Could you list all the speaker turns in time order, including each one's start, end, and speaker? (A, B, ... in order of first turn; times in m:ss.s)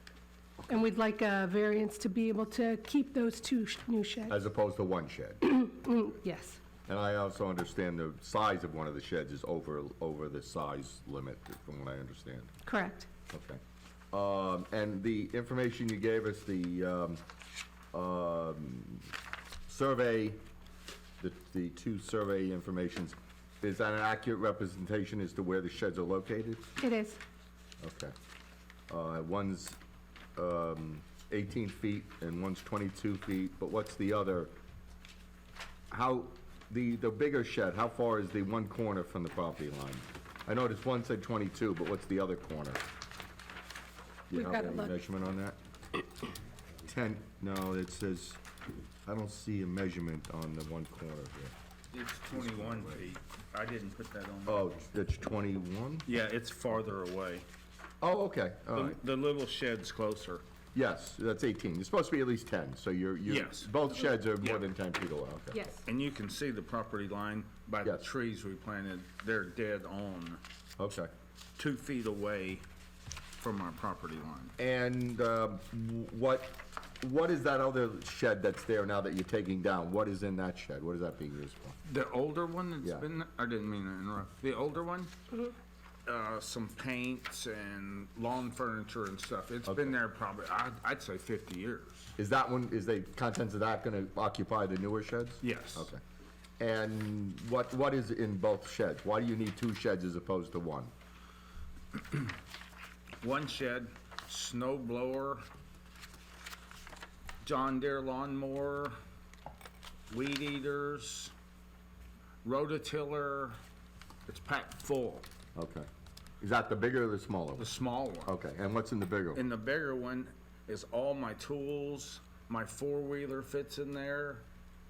0:00.7-0:04.4 A
0:04.3-0:05.6 B
0:05.4-0:06.6 A
0:06.9-0:12.5 B
0:12.6-0:13.1 A
0:13.3-0:13.6 B
0:14.1-0:17.2 B
0:17.9-0:19.1 B
0:19.7-0:20.4 B
0:21.2-0:26.7 B
0:26.8-0:27.2 A
0:27.8-0:28.1 B
0:28.9-0:29.8 B
0:30.4-0:34.5 B
0:35.9-0:42.8 B
0:44.3-0:45.6 B
0:44.3-0:44.9 A
0:46.8-0:48.4 B
0:49.0-0:51.5 B
0:51.9-0:54.7 C
0:52.4-0:53.0 B
0:54.4-0:56.0 B
0:56.0-0:57.5 C
0:58.0-0:59.0 B
0:58.7-1:00.4 C
1:00.7-1:05.8 B
1:03.3-1:03.7 C
1:04.4-1:04.7 C
1:05.8-1:10.4 C
1:10.8-1:11.1 B
1:11.6-1:12.6 C
1:13.4-1:14.5 C
1:14.6-1:21.8 B
1:21.8-1:25.1 C
1:26.0-1:32.1 C
1:29.6-1:30.0 B
1:32.2-1:36.0 B
1:35.4-1:35.9 C
1:36.6-1:40.9 B
1:43.2-1:45.4 C
1:47.4-1:49.0 C
1:50.1-1:51.3 C
1:52.4-1:53.6 C
1:54.3-1:55.2 C
1:55.5-1:55.9 B
1:56.4-1:57.7 B
1:57.6-1:58.3 C
1:58.2-1:59.4 B
1:59.3-2:04.4 C